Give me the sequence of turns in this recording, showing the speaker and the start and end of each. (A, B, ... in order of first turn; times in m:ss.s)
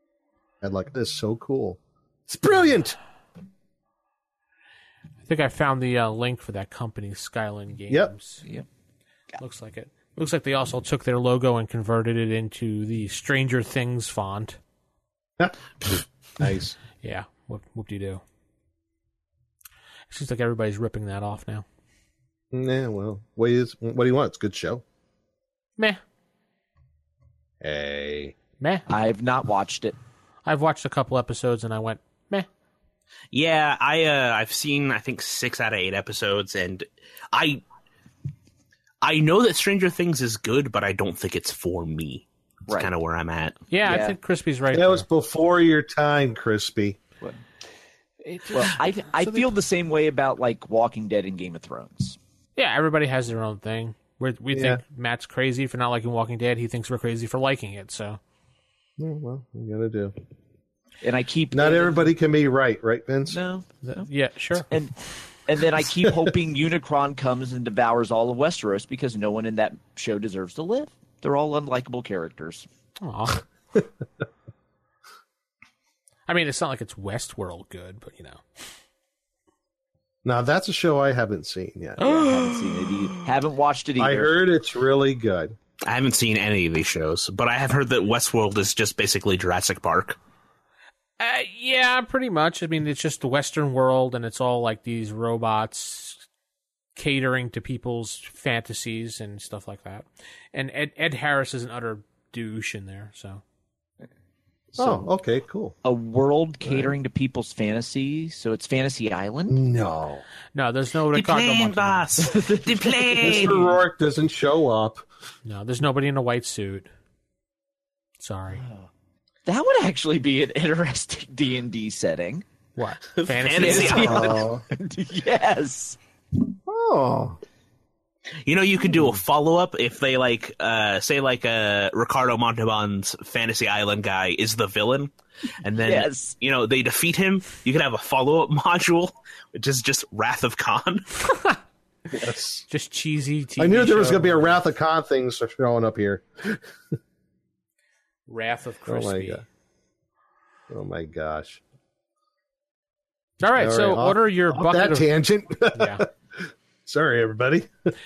0:00.6-0:03.0 A
0:05.2-0:08.4 B
0:09.4-0:14.6 B
0:15.4-0:16.8 A
0:17.0-0:18.2 B
0:20.1-0:21.6 B
0:22.5-0:24.8 A
0:27.6-0:28.4 A
0:28.6-0:28.9 B
0:28.9-0:30.0 C
0:30.4-0:32.5 B
0:33.3-0:37.6 D
0:39.0-0:43.6 D
0:43.7-0:45.0 B
0:43.8-0:44.2 C
0:44.7-0:47.0 A
0:48.3-0:49.4 B
0:48.5-0:52.2 C
0:52.6-0:58.2 B
0:54.5-0:54.8 A
0:59.0-1:00.1 A
1:01.0-1:02.1 C
1:01.5-1:03.4 A
1:03.3-1:04.1 C
1:03.8-1:04.7 B
1:04.7-1:12.7 C
1:06.0-1:06.3 A
1:13.0-1:13.4 B
1:16.3-1:18.4 B
1:20.2-1:22.1 A
1:22.0-1:24.3 C
1:22.0-1:22.6 B
1:24.0-1:25.6 A
1:25.8-1:30.2 D
1:31.2-1:36.2 B
1:37.0-1:43.4 B
1:44.8-1:45.8 A
1:44.8-1:45.1 C
1:45.8-1:49.6 C
1:46.7-1:46.9 A
1:49.5-1:50.2 A
1:50.6-1:52.1 B
1:51.1-1:53.6 D
1:52.2-1:53.7 C
1:53.2-1:55.0 A
1:55.4-1:56.9 B
1:58.2-1:58.6 B
1:58.5-1:58.9 C
1:59.4-2:02.4 C
2:02.8-2:04.4 B
2:03.2-2:04.3 D
2:03.6-2:06.0 C
2:03.8-2:04.6 A
2:06.7-2:07.4 A
2:08.4-2:15.1 D
2:15.6-2:21.1 D
2:15.8-2:16.3 C
2:22.1-2:22.6 A
2:22.7-2:24.6 B
2:23.6-2:26.6 A
2:28.3-2:29.4 B
2:28.9-2:29.4 A
2:30.7-2:31.6 A
2:33.4-2:35.1 B
2:33.6-2:37.7 A
2:35.7-2:36.0 B